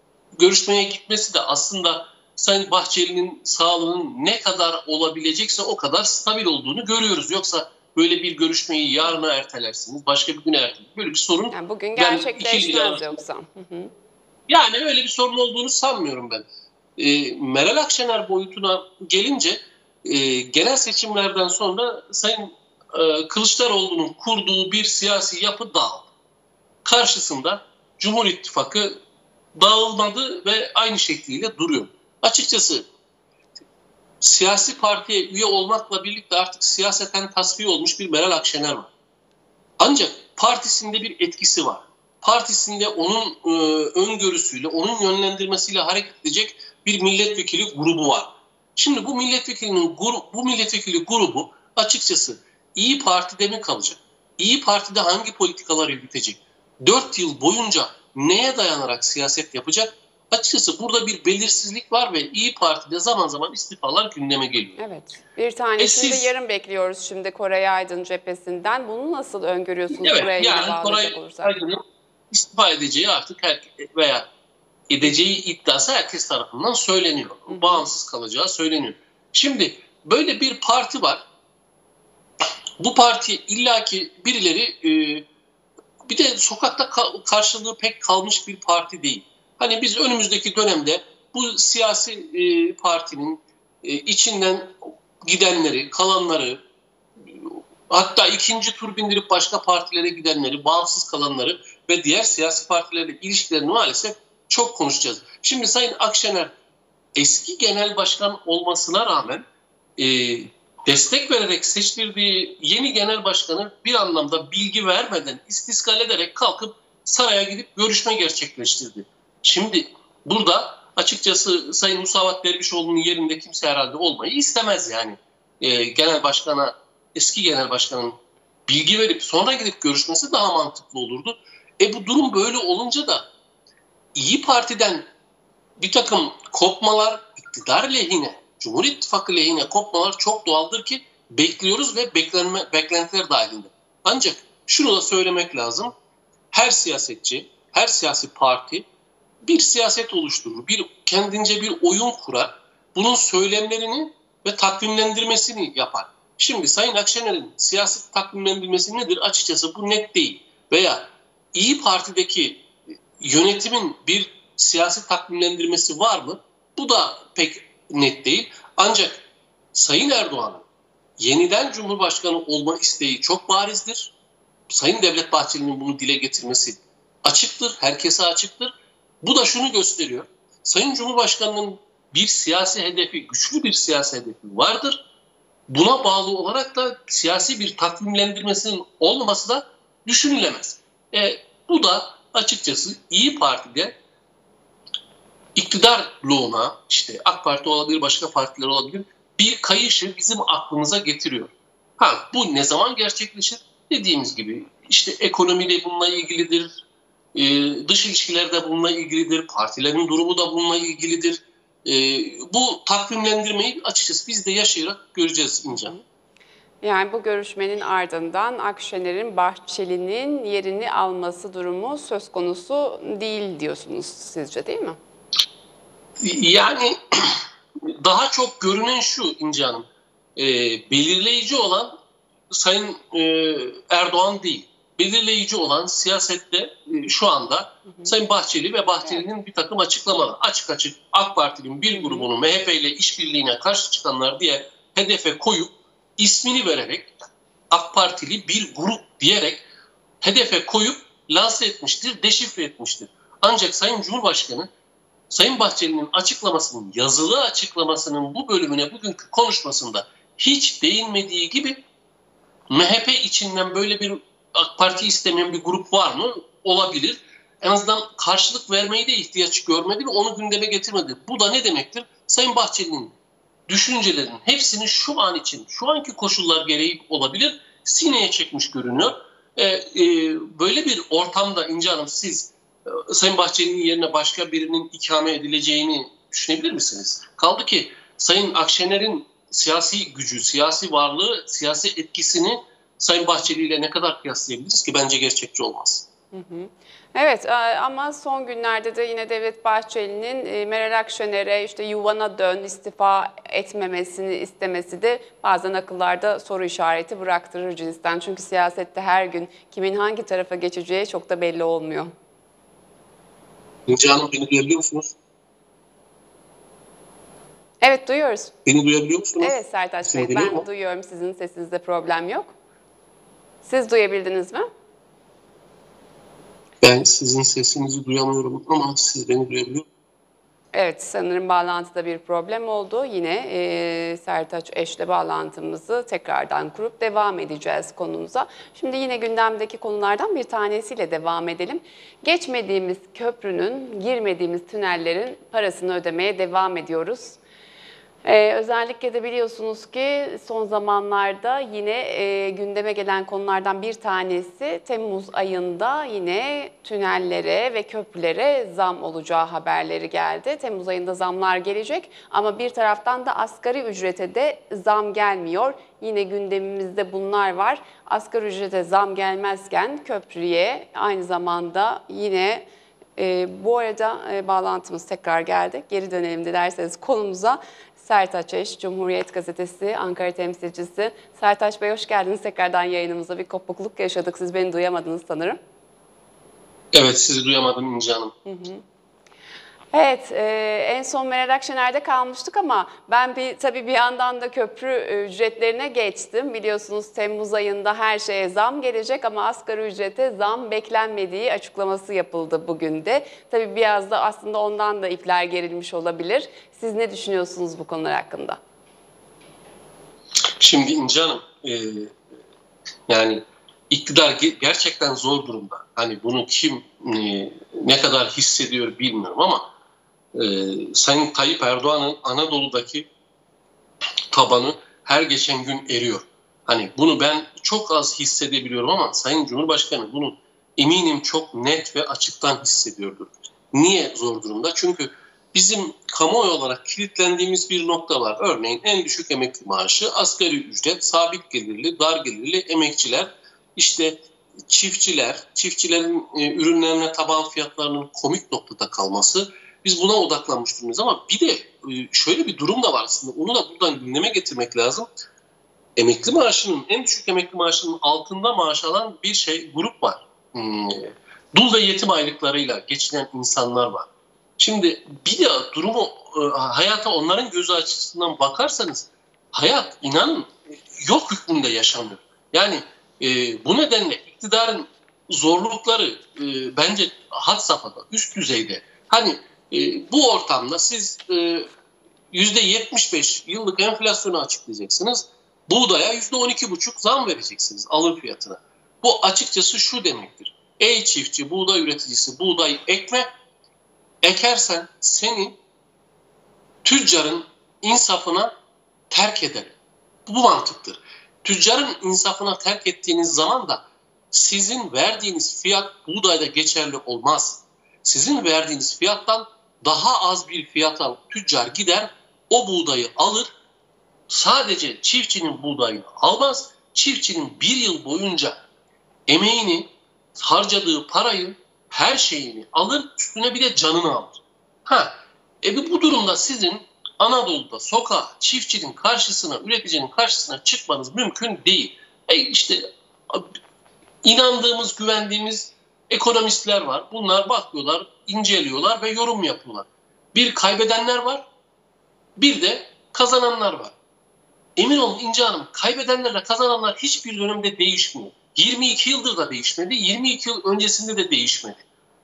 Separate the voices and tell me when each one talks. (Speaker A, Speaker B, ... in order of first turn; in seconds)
Speaker A: 0.4-13.1, 14.5-16.4, 17.0-26.1, 26.8-29.0, 29.5-32.9, 34.2-38.9, 39.8-64.8, 65.8-66.3, 69.9-71.8, 72.3-74.3, 74.9-81.2, 82.8-85.3, 86.0-96.6, 97.2-106.5, 107.2-109.4, 110.0-133.3, 134.1-135.1, 135.8-145.9, 146.5-148.9, 149.4-162.7, 163.2-170.6, 171.2-174.1, 174.7-185.0, 185.7-193.9, 195.5-206.8, 207.3-215.9, 226.2-231.9, 232.5-249.6, 250.2-254.7, 255.3-261.8, 262.7-273.1, 273.7-296.1, 313.9-315.1, 318.6-320.6, 326.8-329.9, 386.9-388.3, 410.6-412.1, 413.1-419.7, 420.3-423.1, 424.3-455.1, 456.0-481.7, 482.3-493.3, 494.2-495.6, 496.8-498.5, 499.1-499.8, 500.3-513.5, 514.3-518.6, 519.3-533.5, 534.2-541.5, 542.4-543.9, 544.8-551.8
Speaker B: 11.5-13.9, 64.8-71.5, 77.5-77.8, 215.7-216.0, 216.8-225.0, 241.9-242.3, 296.3-312.1, 317.8-318.5, 319.4-322.5, 323.6-324.7, 330.7-347.4, 348.2-372.6, 373.2-385.6, 388.4-388.8, 389.9-408.6